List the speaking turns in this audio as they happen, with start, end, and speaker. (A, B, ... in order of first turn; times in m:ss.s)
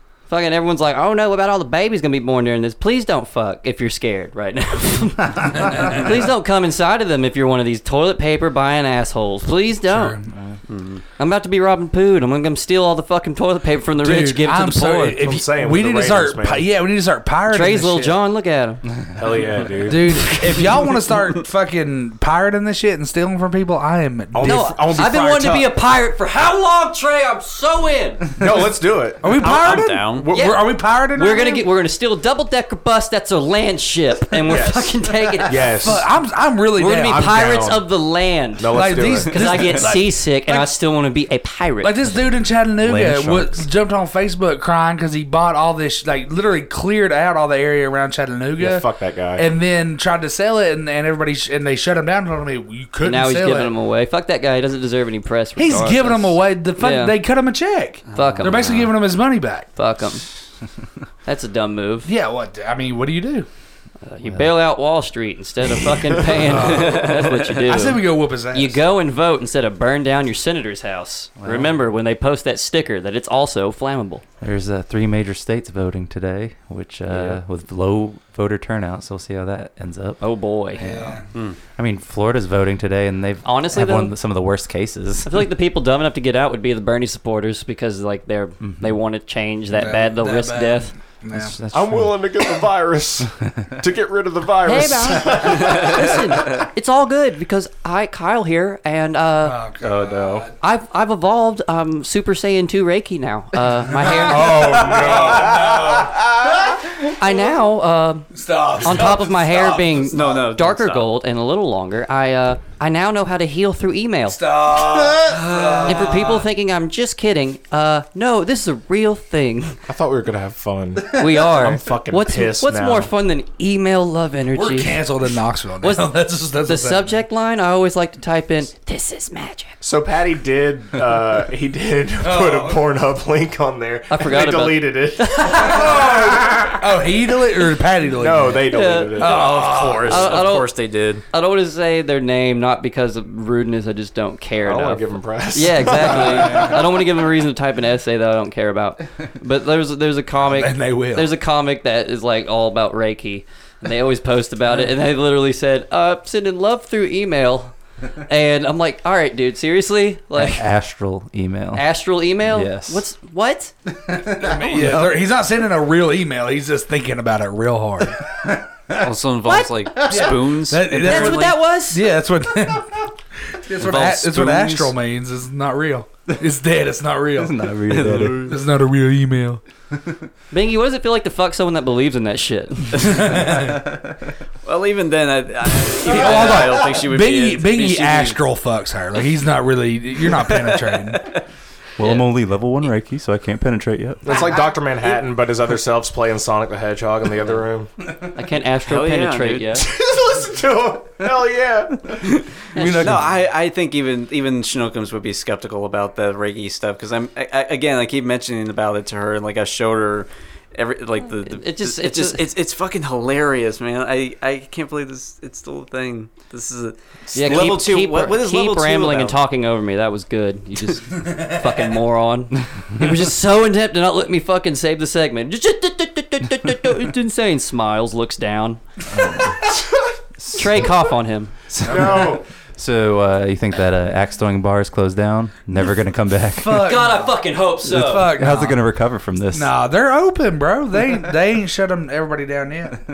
0:00.3-0:10.2 A
0:09.9-0:10.3 B
0:10.3-0:10.6 C
0:10.7-0:11.0 D
0:11.2-0:15.2 A
0:14.0-0:18.2 B
0:15.2-0:16.7 E
0:17.5-0:18.8 A
0:19.2-0:20.3 E
0:19.8-0:24.7 B
0:24.3-0:25.7 E
0:24.4-0:28.3 A
0:28.4-0:30.7 E
0:29.2-0:31.6 B
0:29.4-0:30.3 D
0:30.3-0:35.8 A
0:34.5-0:36.0 E
0:35.7-0:37.8 B
0:36.8-0:42.0 A
0:37.4-0:37.7 E
0:38.6-0:39.4 E
0:38.7-0:40.7 B
0:41.8-0:53.7 B
0:42.8-0:43.6 C
0:48.6-0:49.4 E
0:53.0-0:57.1 A
0:55.6-0:59.7 B
0:58.1-0:58.8 D
0:58.1-0:58.9 A
0:59.8-1:00.2 A
1:01.2-1:02.1 A
1:02.0-1:03.5 B
1:04.0-1:14.2 A
1:06.3-1:08.8 B
1:11.4-1:11.8 C
1:14.4-1:20.2 C
1:17.1-1:17.4 A
1:20.2-1:20.8 A
1:20.7-1:25.3 C
1:20.8-1:21.2 B
1:23.4-1:24.1 A
1:25.2-1:30.9 A
1:28.6-1:29.0 C
1:29.7-1:31.5 B
1:31.3-1:32.2 C
1:31.7-1:36.5 E
1:34.6-1:39.6 A
1:39.4-1:40.5 B
1:39.8-1:40.5 E
1:40.6-1:44.8 A
1:43.9-1:47.3 B
1:44.0-1:46.5 E
1:47.2-1:54.4 A
1:48.3-1:50.4 B
1:50.1-1:51.1 D
1:54.3-1:56.4 B
1:55.2-1:56.2 D
1:55.8-1:59.8 A
1:59.9-2:03.1 E
2:01.1-2:05.0 A
2:04.5-2:07.1 B
2:05.8-2:06.1 A
2:06.6-2:09.7 A
2:09.8-2:16.8 E
2:12.2-2:12.9 B
2:14.1-2:15.9 A
2:15.6-2:20.4 B
2:18.1-2:20.3 E
2:18.7-2:20.7 A
2:19.5-2:21.2 D
2:21.3-2:37.7 A
2:24.6-2:26.8 E
2:26.1-2:26.8 B
2:30.4-2:31.3 B
2:38.2-2:40.6 A
2:40.3-2:41.9 C
2:41.7-2:43.7 A
2:42.4-2:43.0 C
2:44.1-2:48.4 B
2:44.1-2:45.0 C
2:48.9-2:51.5 D
2:49.4-2:50.3 A
2:50.0-2:59.6 B
2:51.0-2:52.0 A
2:53.8-2:54.7 C
2:57.4-2:58.6 C
2:57.9-2:58.5 D
3:00.5-3:03.3 A
3:03.0-3:03.8 B
3:04.6-3:08.4 D
3:05.9-3:11.4 B
3:10.4-3:11.4 D
3:12.0-3:14.5 C
3:14.2-3:17.9 E
3:18.3-3:19.8 A
3:18.8-3:19.8 D
3:19.8-3:22.2 E
3:22.2-3:39.4 D
3:22.8-3:23.1 A
3:22.8-3:23.2 C
3:31.4-3:32.4 A
3:37.3-3:37.7 C
3:37.3-3:48.8 A
3:49.2-3:49.6 C
3:50.4-3:50.9 C
3:50.5-3:51.5 A
3:51.7-3:57.0 C
3:51.8-3:52.4 E
3:56.5-3:58.8 B
3:56.7-3:58.3 A
3:58.3-3:59.7 C
3:59.5-4:03.0 B